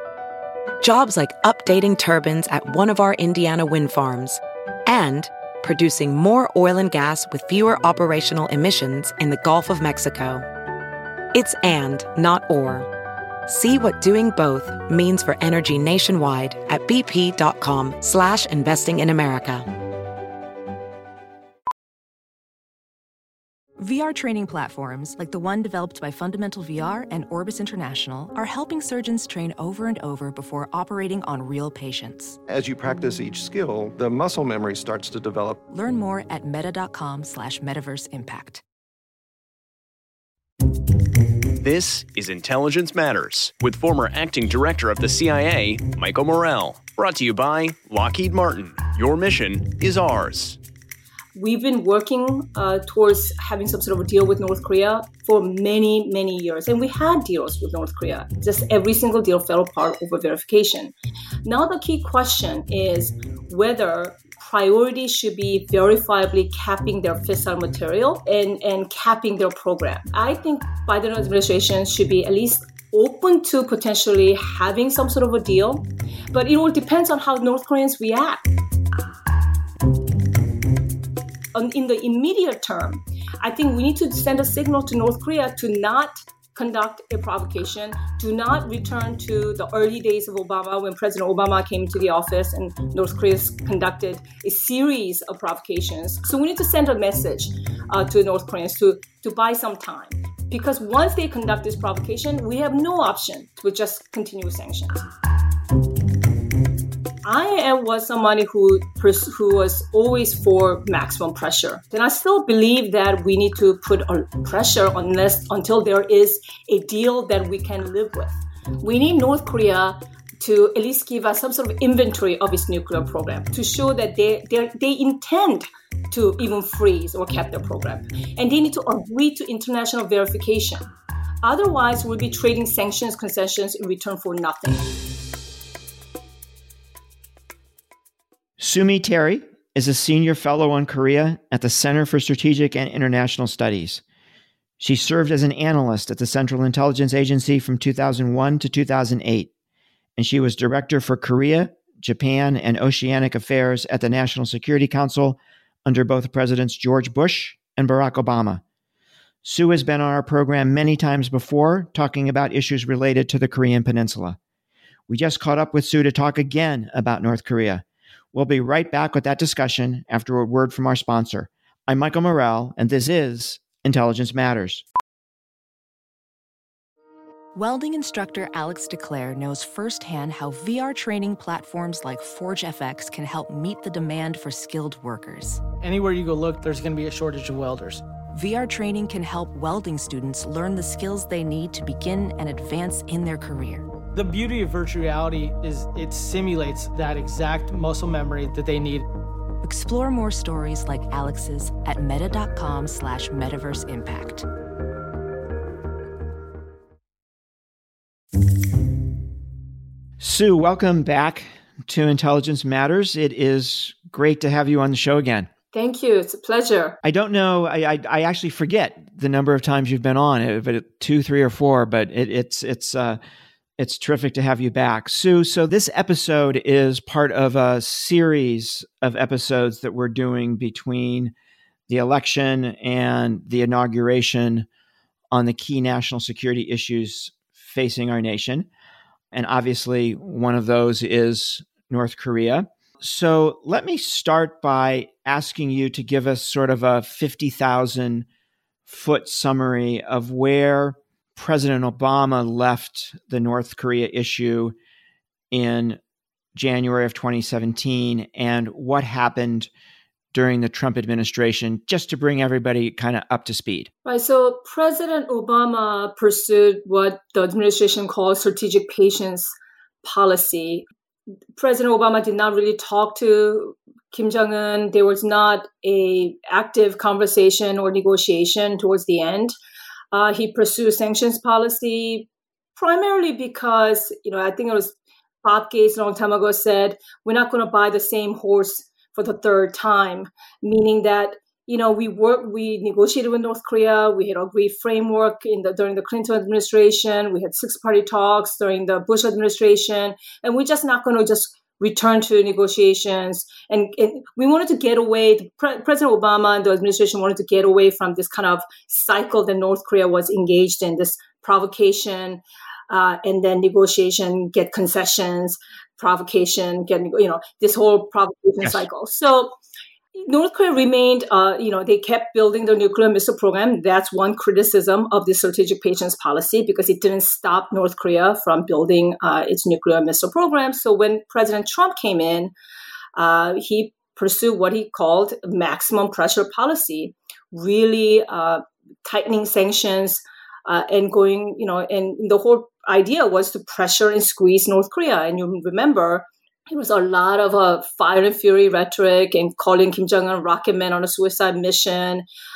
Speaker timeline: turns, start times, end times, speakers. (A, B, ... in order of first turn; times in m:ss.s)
0:00.8-0:10.4 A
0:11.3-0:12.9 A
0:13.5-0:19.7 A
0:23.8-0:32.4 B
0:32.5-0:35.6 C
0:35.7-0:38.6 B
0:41.6-0:50.6 D
0:51.4-1:00.9 E
1:01.4-1:18.4 E
1:21.5-1:45.0 E
1:47.2-2:10.9 E
2:11.4-2:14.8 E
2:18.6-2:24.0 F
2:24.8-2:29.5 F
2:30.2-2:38.6 F
2:39.4-2:44.4 F
2:45.1-2:54.8 F
2:57.6-3:05.6 B
3:05.8-3:08.0 G
3:08.3-3:13.9 B
3:14.1-3:19.1 G
3:19.6-3:24.4 B
3:30.2-3:35.5 F
3:35.7-3:37.0 E
3:37.0-3:43.2 F
3:43.8-3:51.3 F
3:51.9-3:54.7 F
3:55.3-3:58.7 F
3:59.3-4:08.3 F
4:08.9-4:14.8 F
4:15.5-4:16.0 F
4:16.6-4:19.7 F
4:20.3-4:23.9 F
4:24.0-4:30.8 E
4:31.6-4:39.6 E
4:40.1-5:19.5 E
5:20.2-5:32.5 E
5:33.2-5:52.2 E